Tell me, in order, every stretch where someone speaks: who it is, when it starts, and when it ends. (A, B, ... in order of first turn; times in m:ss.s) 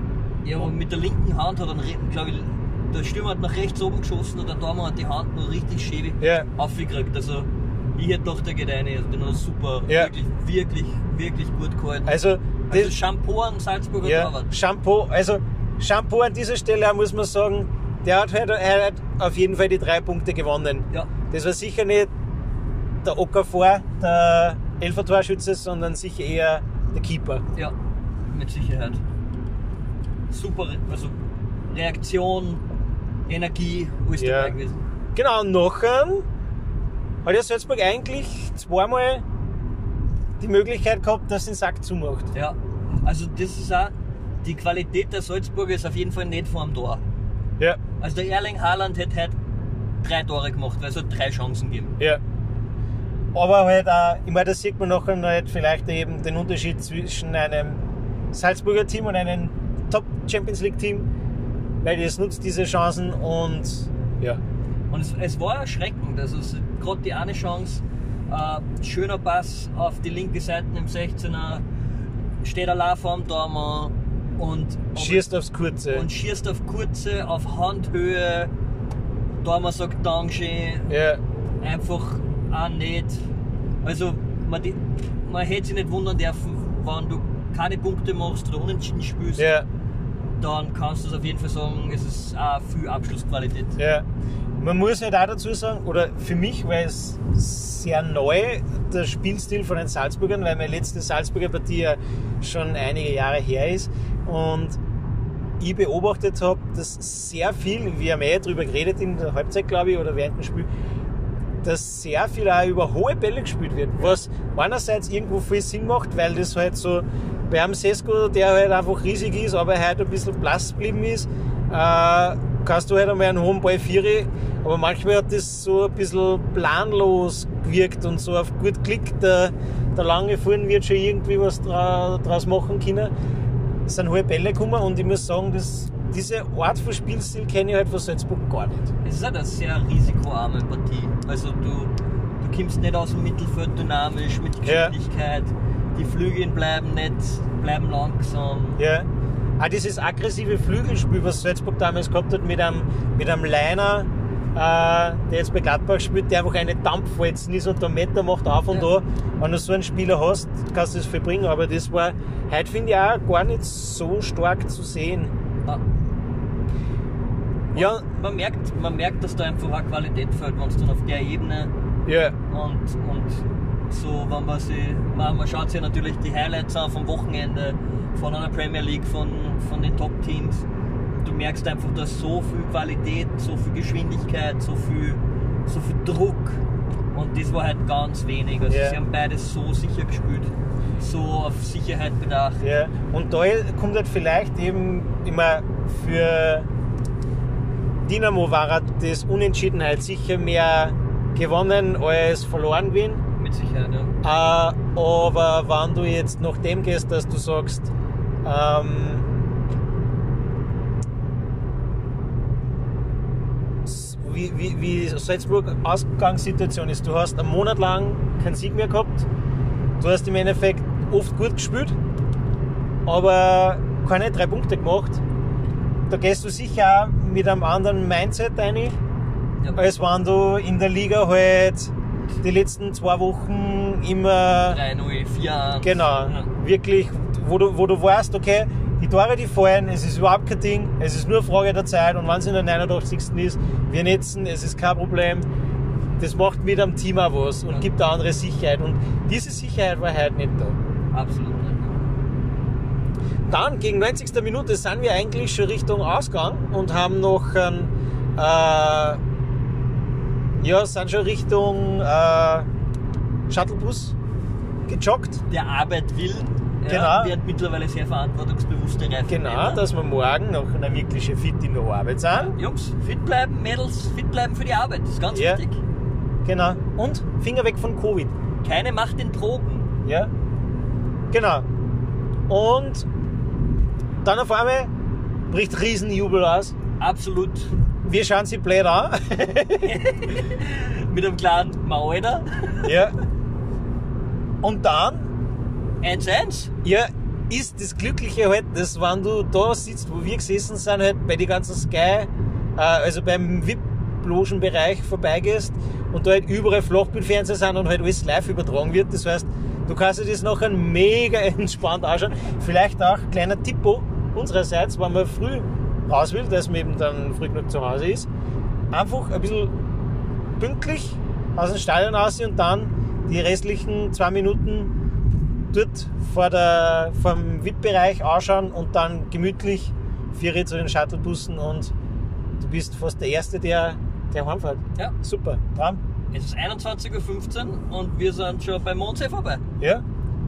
0:00.4-0:14.5 A
0:06.2-0:06.5 B
0:12.1-0:13.0 B
0:14.0-0:22.1 B
0:23.0-0:27.4 B
0:28.3-0:29.0 A
0:30.3-0:31.2 A
0:31.7-0:32.6 A
0:33.3-0:34.8 A
0:34.2-0:34.6 B
0:35.2-0:36.3 B
0:37.2-0:39.2 B
0:40.4-0:42.3 B
0:42.3-0:47.0 A
0:48.0-0:49.4 A
0:50.0-0:52.0 A
0:53.3-0:57.8 B
0:58.3-1:01.1 B
1:01.8-1:04.4 B
1:04.9-1:11.6 A
1:12.4-1:15.3 A
1:15.0-1:16.1 B
1:15.9-1:18.5 A
1:19.4-1:20.9 A
1:20.9-1:21.2 B
1:21.6-1:23.2 A
1:23.8-1:29.5 A
1:29.4-1:29.7 B
1:30.4-1:33.8 A
1:33.8-1:34.0 B
1:34.6-1:44.8 B
1:45.6-1:50.7 B
1:51.6-2:13.1 B
2:13.9-2:18.9 B
2:19.0-2:28.8 A
2:24.6-2:24.9 B
2:28.8-2:29.1 B
2:29.6-2:45.3 B
2:47.7-2:48.0 B
2:47.8-2:51.7 A
2:52.1-2:52.4 B
2:52.5-3:00.6 A
3:01.2-3:06.6 A
3:07.1-3:12.7 A
3:08.7-3:09.0 B
3:12.6-3:16.7 B
3:18.0-3:23.2 B
3:23.4-3:24.2 A
3:24.2-3:27.9 B
3:28.4-3:29.3 B
3:33.8-3:39.3 B
3:40.0-3:42.0 B
3:43.1-3:45.2 B
3:46.1-3:49.0 B
3:49.8-3:54.8 B
3:54.6-3:56.5 A
3:55.8-4:05.5 B
4:06.2-4:10.8 B
4:11.1-4:12.0 A
4:13.5-4:19.2 B
4:20.6-4:22.7 B
4:23.5-4:24.2 B
4:24.9-4:25.4 B
4:25.5-4:29.8 A
4:26.9-4:27.4 B
4:29.3-4:32.6 B
4:32.4-4:35.8 A
4:35.3-4:35.6 B
4:36.4-4:38.3 B
4:38.6-4:39.9 A
4:40.0-4:40.3 B
4:41.3-4:41.7 B
4:42.5-4:43.1 B
4:44.2-4:44.9 B
4:45.5-4:46.8 B
4:47.0-4:47.7 A
4:48.0-4:50.0 B
4:49.8-4:53.0 A
4:52.8-4:53.1 B
4:54.6-4:55.3 B
4:56.0-4:56.7 A
4:56.8-5:18.3 B
5:18.9-5:19.7 B
5:20.6-5:24.9 B
5:25.7-5:31.9 B
5:32.6-5:36.0 B
5:36.3-5:39.6 A